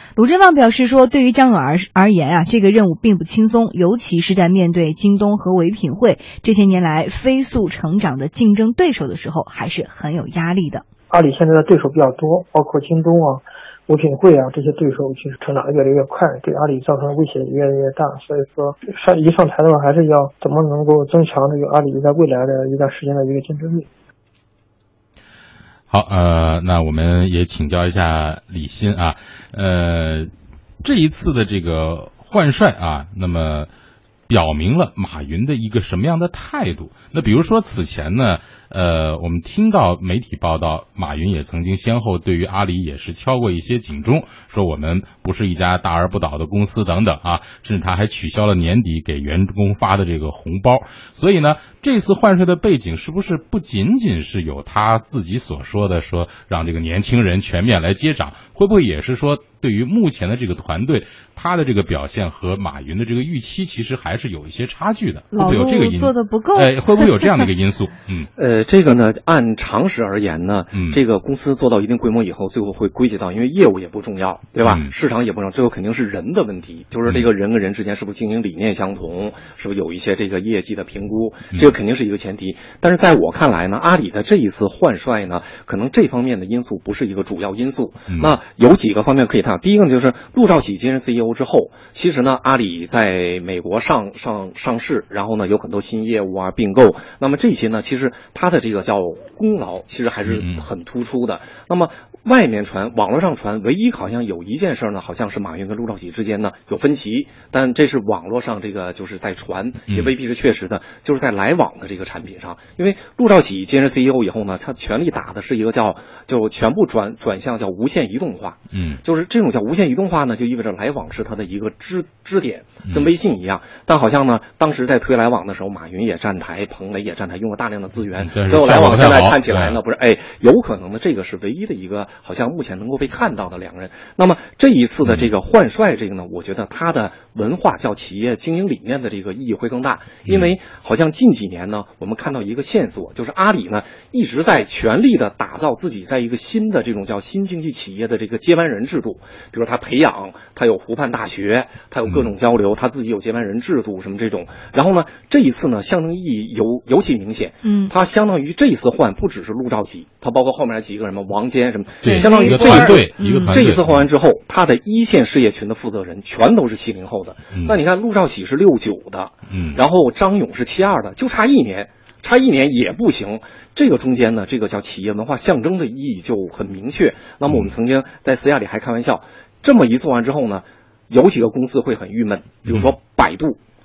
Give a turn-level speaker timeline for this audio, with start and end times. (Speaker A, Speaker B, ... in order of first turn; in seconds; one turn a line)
Speaker A: 0.2-10.8
Speaker B: 11.1-23.9
Speaker C: 25.9-30.3
Speaker C: 30.8-33.7
Speaker C: 34.3-68.3
Speaker A: 65.3-67.4
Speaker D: 68.4-183.6
Speaker C: 74.6-74.9
Speaker C: 100.3-100.7
Speaker C: 118.7-119.0
Speaker C: 122.9-123.1
Speaker C: 128.2-129.8
Speaker C: 140.3-140.5
Speaker A: 157.6-157.9
Speaker C: 162.0-164.0
Speaker A: 162.0-163.6
Speaker C: 169.5-169.8